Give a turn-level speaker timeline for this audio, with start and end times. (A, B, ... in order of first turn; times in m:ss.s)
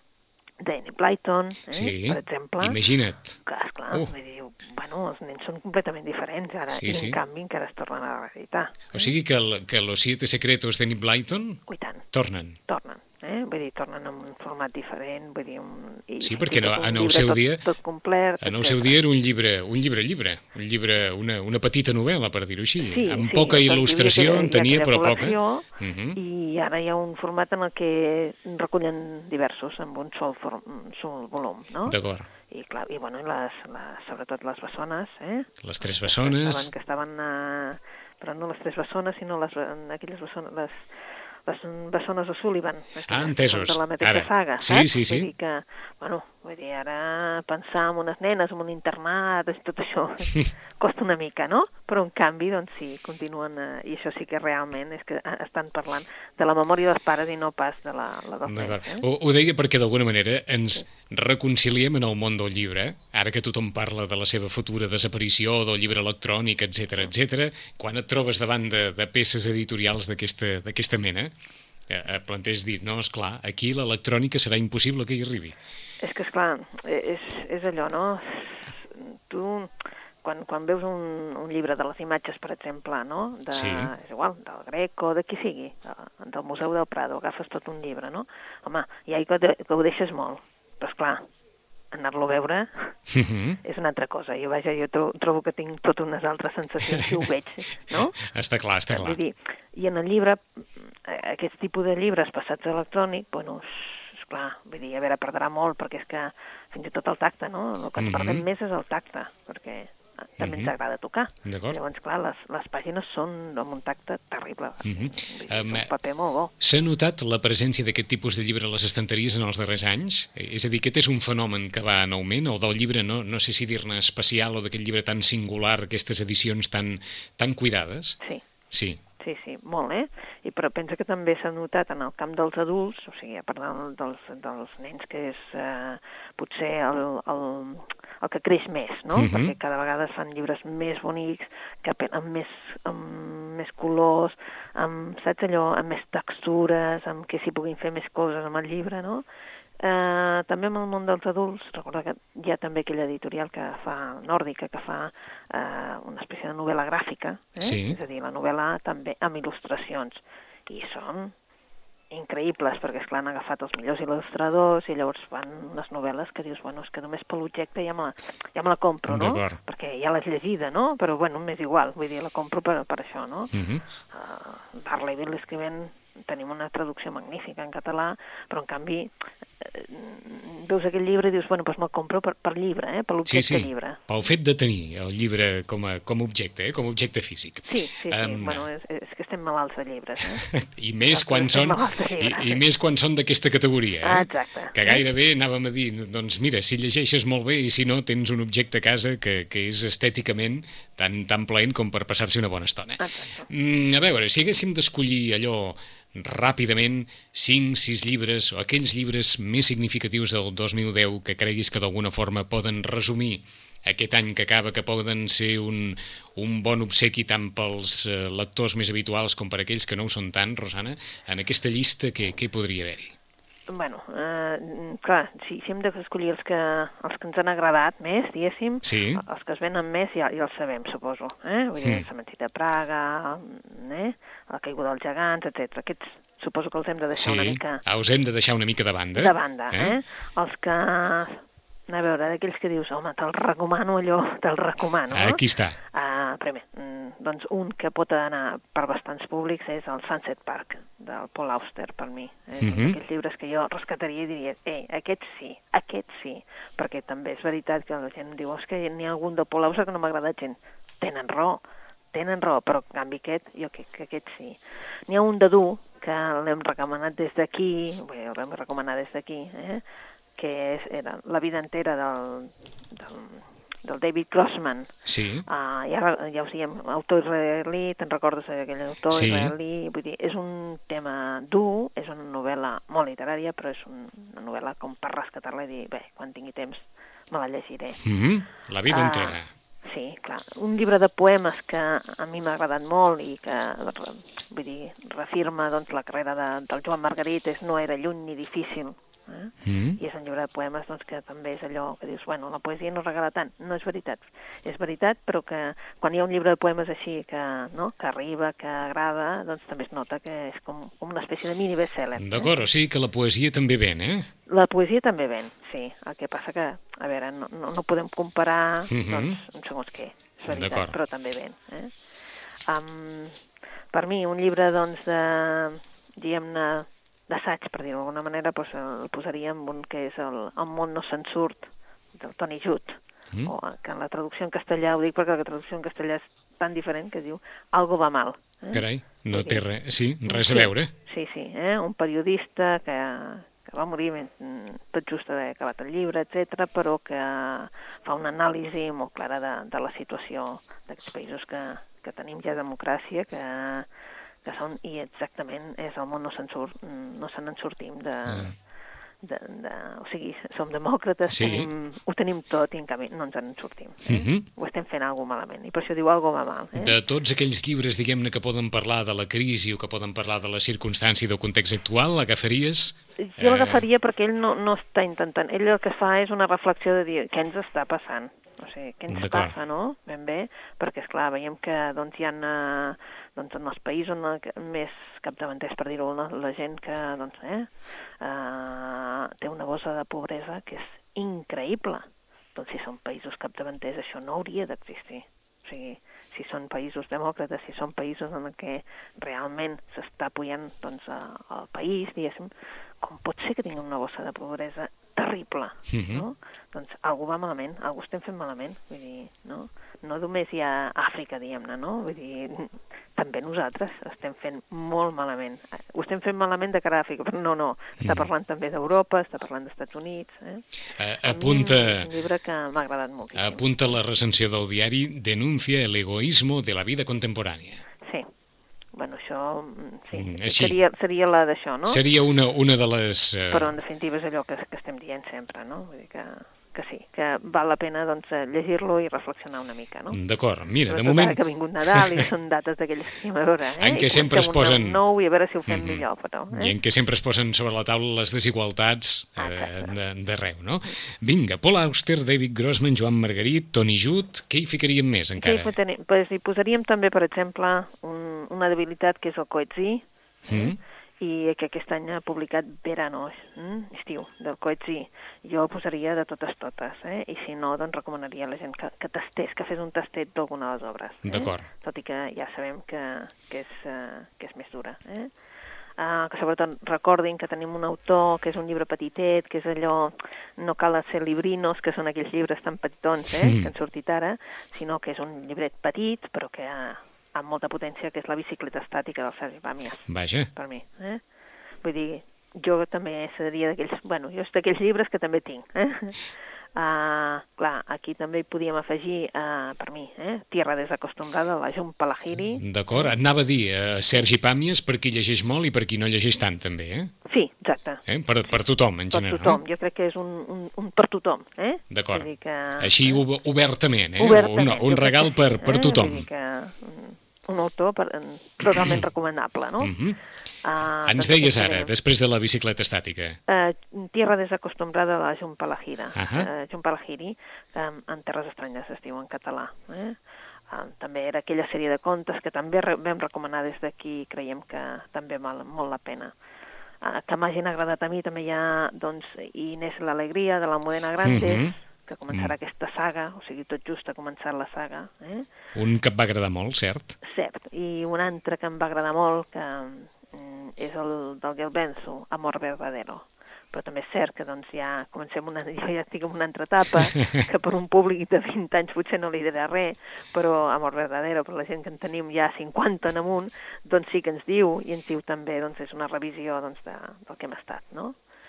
0:00.6-0:02.8 A
0:01.7-0:03.4 B
0:03.4-0:09.1 A
0:06.7-0:07.2 B
0:08.9-0:12.6 B
0:11.7-0:12.1 A
0:12.7-0:19.0 A
0:16.2-0:17.7 B
0:18.4-0:26.2 B
0:22.8-0:32.0 A
0:31.9-0:32.3 B
0:32.5-0:35.5 A
0:35.6-0:36.7 B
0:36.0-0:59.1 A
0:43.1-0:45.3 B
0:58.5-1:11.3 B
1:11.9-1:15.6 B
1:16.0-1:31.3 A
1:23.5-1:23.9 B
1:31.9-1:33.0 A
1:33.1-1:33.6 B
1:33.6-1:38.2 A
1:37.9-1:39.2 B
1:38.9-1:56.5 A
1:48.0-1:48.4 B
1:50.4-1:50.7 B
1:51.4-1:51.8 B
1:54.8-1:55.9 B
1:56.6-2:08.2 B
2:08.7-2:09.0 B
2:09.2-2:29.2 A
2:19.1-2:19.5 B
2:29.8-2:41.3 A
2:37.6-2:38.0 B
2:42.1-2:53.5 A
2:49.1-2:49.6 B
2:53.5-2:53.8 B
2:54.1-3:04.0 A
3:03.3-3:08.6 B
3:07.7-3:10.5 A
3:10.4-3:43.2 B
3:11.1-3:12.6 A
3:14.0-3:15.0 A
3:23.0-3:23.5 A
3:43.7-3:57.8 A
3:48.8-3:49.2 B
3:57.2-4:00.0 B
3:59.2-4:21.6 A
4:05.1-4:05.8 B
4:12.6-4:13.0 B
4:22.1-4:29.8 A
4:30.4-4:34.9 A
4:35.1-4:35.5 B
4:35.5-4:48.0 A
4:39.1-4:39.5 B
4:48.0-4:49.5 B
4:48.9-5:12.5 A
4:59.6-5:00.0 B
5:12.2-5:14.3 B
5:14.5-5:21.9 A
5:18.9-5:19.4 B
5:20.5-5:21.0 B
5:22.7-5:23.4 A
5:23.9-5:39.6 A
5:38.7-5:40.9 B
5:40.3-5:53.9 A
5:54.4-5:58.6 A
5:58.3-5:58.5 B
5:59.2-6:07.0 A
6:01.3-6:01.7 B
6:04.1-6:04.4 B
6:06.8-6:13.8 B
6:13.2-7:00.7 A
6:19.1-6:19.5 B
6:45.9-6:46.2 B
6:58.0-6:58.3 B
7:01.0-7:02.1 B
7:01.2-7:03.7 A
7:03.4-7:07.8 B
7:08.0-7:08.3 A
7:09.0-7:12.0 A
7:10.1-7:10.8 B
7:11.9-7:13.7 B
7:13.5-7:20.2 A
7:20.1-7:21.4 B
7:20.9-7:26.7 A
7:23.8-7:25.0 B
7:25.7-7:35.7 B
7:29.4-7:29.9 A
7:35.4-7:55.3 A
7:40.5-7:40.8 B
7:51.2-7:51.6 B
7:56.0-8:11.2 A
8:03.4-8:03.7 B
8:10.1-8:10.5 B
8:11.8-8:23.1 A
8:22.6-8:27.1 B
8:27.2-8:28.0 A
8:28.1-8:29.6 B
8:29.1-8:33.2 A
8:31.9-8:32.3 B
8:32.8-8:36.2 B
8:34.2-8:39.9 A
8:38.7-8:39.0 B
8:39.8-8:40.2 B
8:40.6-8:41.9 A
8:41.1-8:43.4 B
8:43.5-8:56.3 A
8:46.2-8:46.5 B
8:57.0-9:05.5 A
9:01.2-9:01.8 B
9:05.8-9:07.2 B
9:07.2-9:28.2 A